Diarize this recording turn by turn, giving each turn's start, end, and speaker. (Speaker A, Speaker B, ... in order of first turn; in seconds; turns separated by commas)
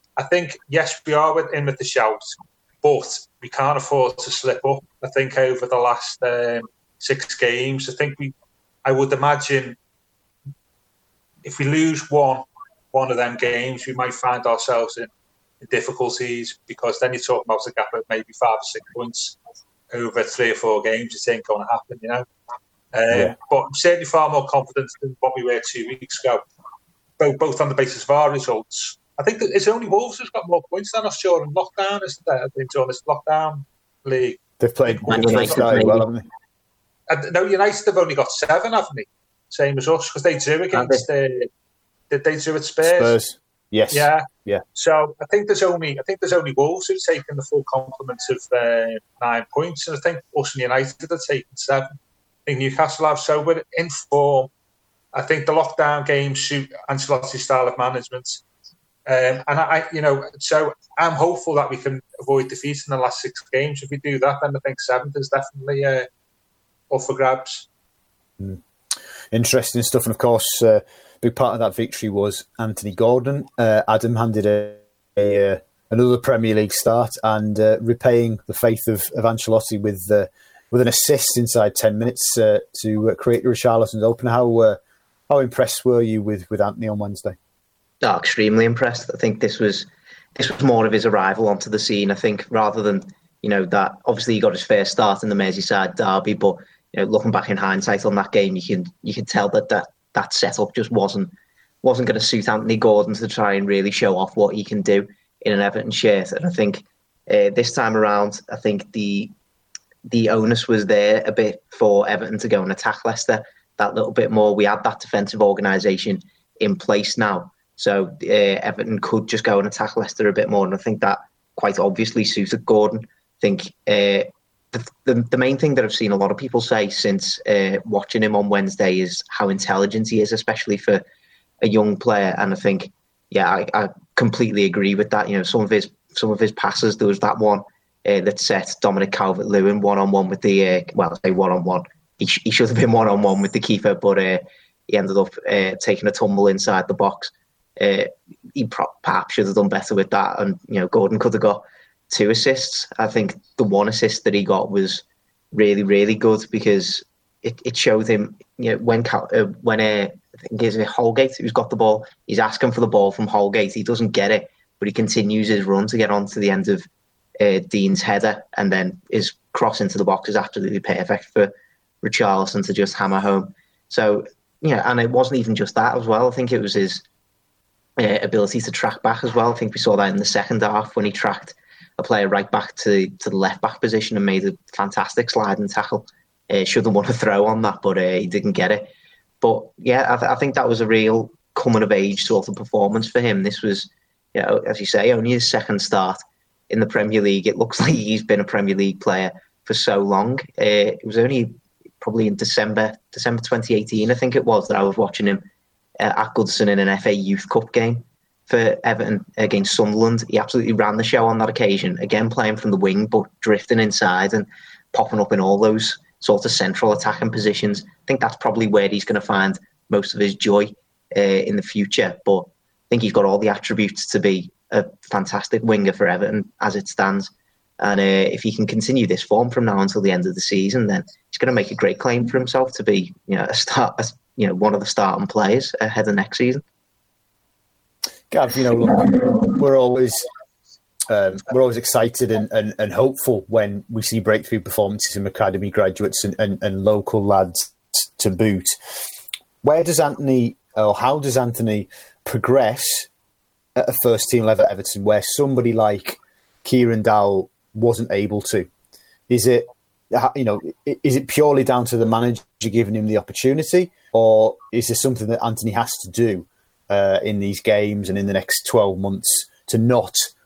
Speaker A: 0.2-8.3, Speaker A: 8.8-9.8, Speaker A: 11.4-15.1, Speaker A: 15.6-19.4, Speaker A: 19.9-22.2, Speaker A: 22.9-26.4, Speaker A: 27.2-35.7, Speaker B: 34.6-36.2, Speaker C: 35.1-36.0, Speaker A: 37.1-41.5, Speaker C: 40.7-41.0, Speaker A: 42.1-43.1, Speaker B: 42.8-44.6, Speaker A: 43.9-54.5, Speaker A: 55.1-58.4, Speaker A: 59.0-66.1, Speaker A: 66.9-67.7, Speaker B: 69.3-87.4, Speaker C: 88.0-101.3, Speaker C: 101.8-109.3, Speaker C: 110.0-131.0, Speaker C: 131.6-166.9, Speaker C: 167.4-177.0, Speaker C: 178.0-188.9, Speaker C: 189.4-205.4, Speaker C: 206.0-236.6, Speaker B: 238.3-240.3, Speaker B: 241.1-248.8, Speaker B: 249.6-253.1, Speaker B: 253.8-258.7, Speaker B: 259.3-270.3